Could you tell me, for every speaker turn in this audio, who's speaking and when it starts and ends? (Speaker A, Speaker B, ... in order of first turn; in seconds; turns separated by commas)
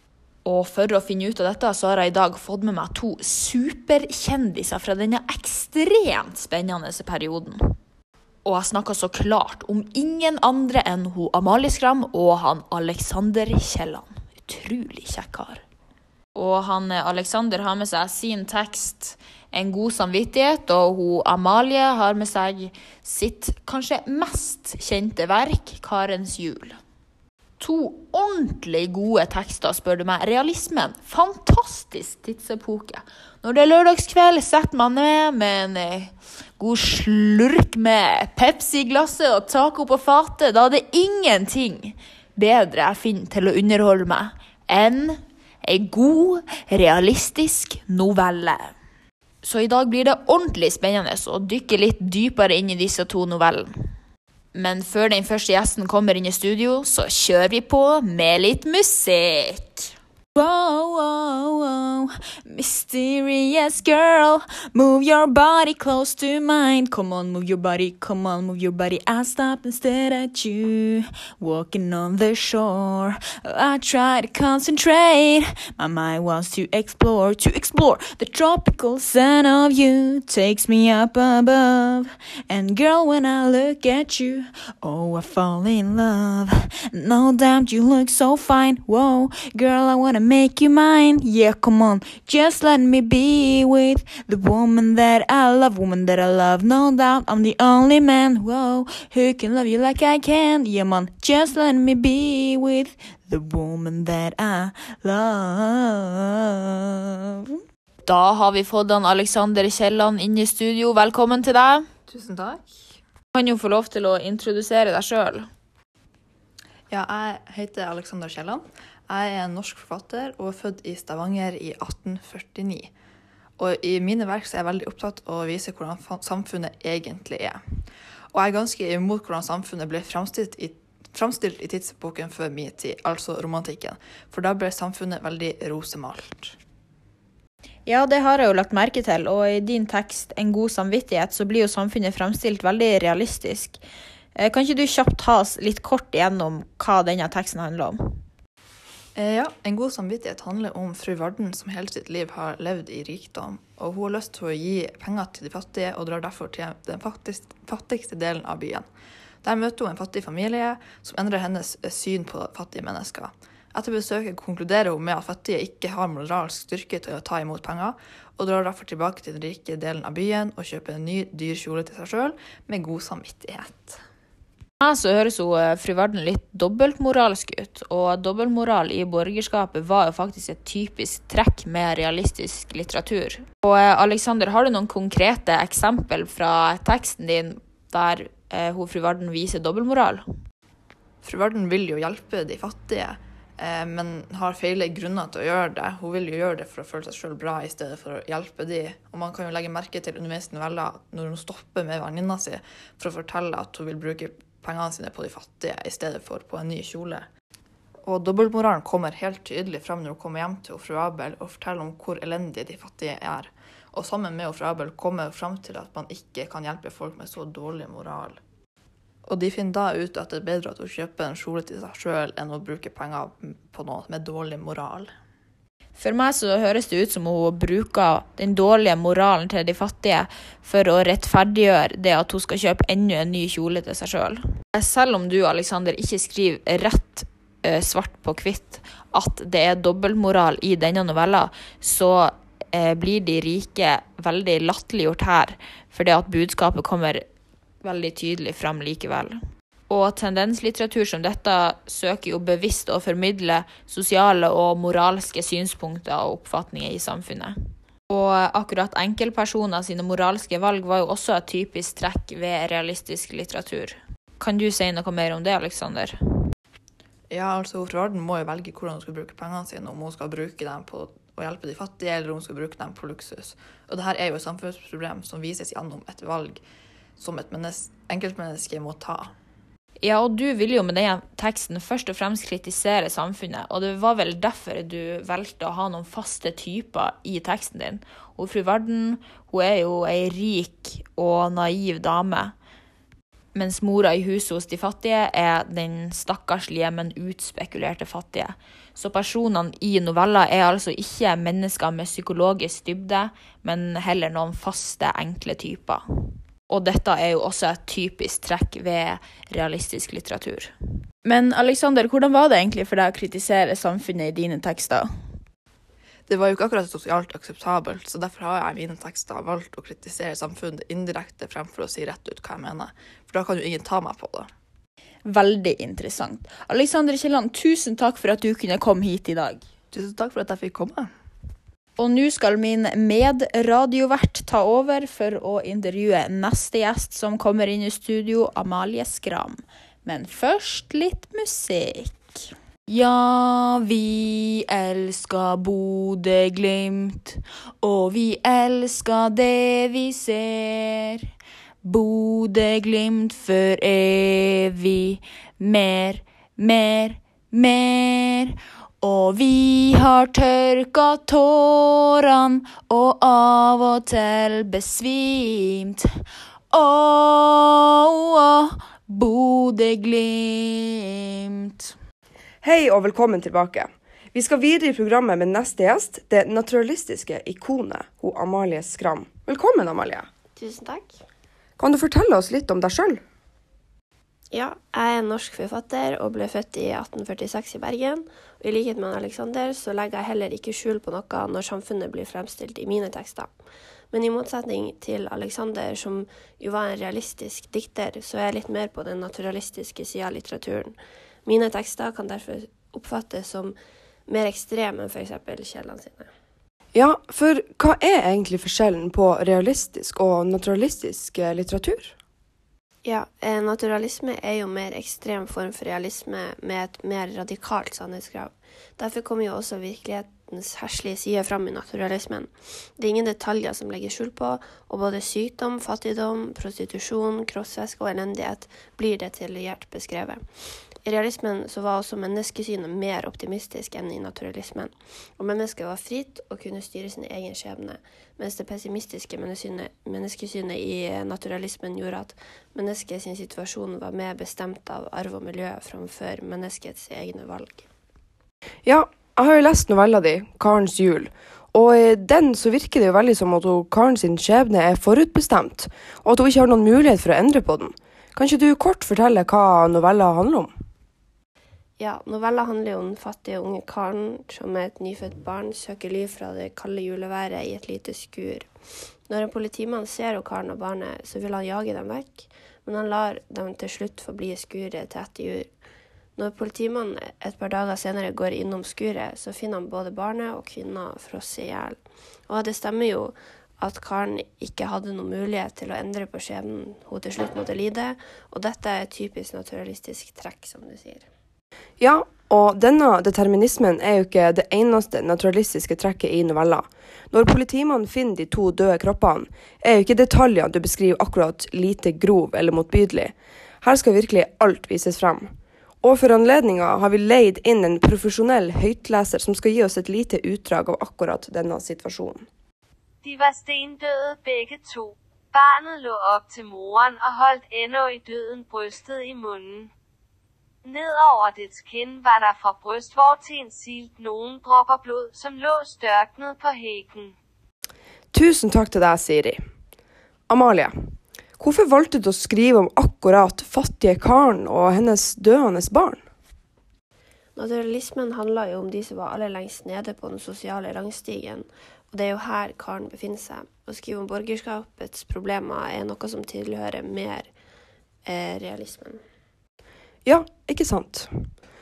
Speaker A: 0.4-7.6, Speaker A: 8.4-15.6, Speaker A: 16.3-26.8, Speaker A: 27.6-48.7, Speaker A: 49.4-53.7, Speaker A: 54.5-111.8, Speaker B: 112.1-112.7, Speaker A: 113.3-115.5, Speaker B: 116.9-122.9, Speaker B: 123.6-127.6, Speaker B: 128.3-136.6, Speaker A: 137.8-143.8, Speaker A: 144.3-148.0, Speaker B: 149.2-158.9, Speaker B: 159.4-174.0, Speaker A: 174.8-190.2, Speaker B: 191.2-207.3, Speaker B: 208.0-218.4, Speaker B: 219.2-225.1, Speaker A: 226.0-247.2, Speaker A: 247.8-249.4, Speaker A: 249.9-257.5, Speaker A: 258.1-266.1, Speaker B: 267.3-276.6, Speaker B: 277.2-279.3, Speaker A: 280.0-292.5, Speaker A: 293.5-306.0, Speaker A: 306.7-310.7, Speaker A: 311.2-315.1, Speaker B: 316.3-324.5, Speaker A: 325.2-329.6, Speaker B: 329.9-331.1, Speaker A: 332.0-351.2, Speaker A: 351.8-366.1, Speaker A: 366.7-371.9, Speaker C: 372.6-380.3, Speaker D: 380.6-381.2, Speaker C: 381.8-383.2, Speaker D: 384.5-393.5, Speaker D: 394.1-403.7, Speaker D: 404.3-406.3, Speaker C: 406.9-412.1, Speaker D: 413.0-430.4, Speaker D: 431.0-447.9, Speaker C: 448.8-460.7, Speaker D: 462.0-468.7, Speaker D: 469.3-475.7, Speaker D: 476.4-482.0, Speaker D: 482.5-491.2, Speaker C: 492.0-505.5, Speaker C: 506.0-512.5, Speaker E: 513.2-519.9, Speaker E: 520.8-527.3, Speaker C: 528.3-529.6, Speaker C: 530.5-530.9, Speaker C: 531.6-536.2, Speaker D: 537.5-547.5, Speaker D: 548.2-549.2, Speaker C: 550.2-551.3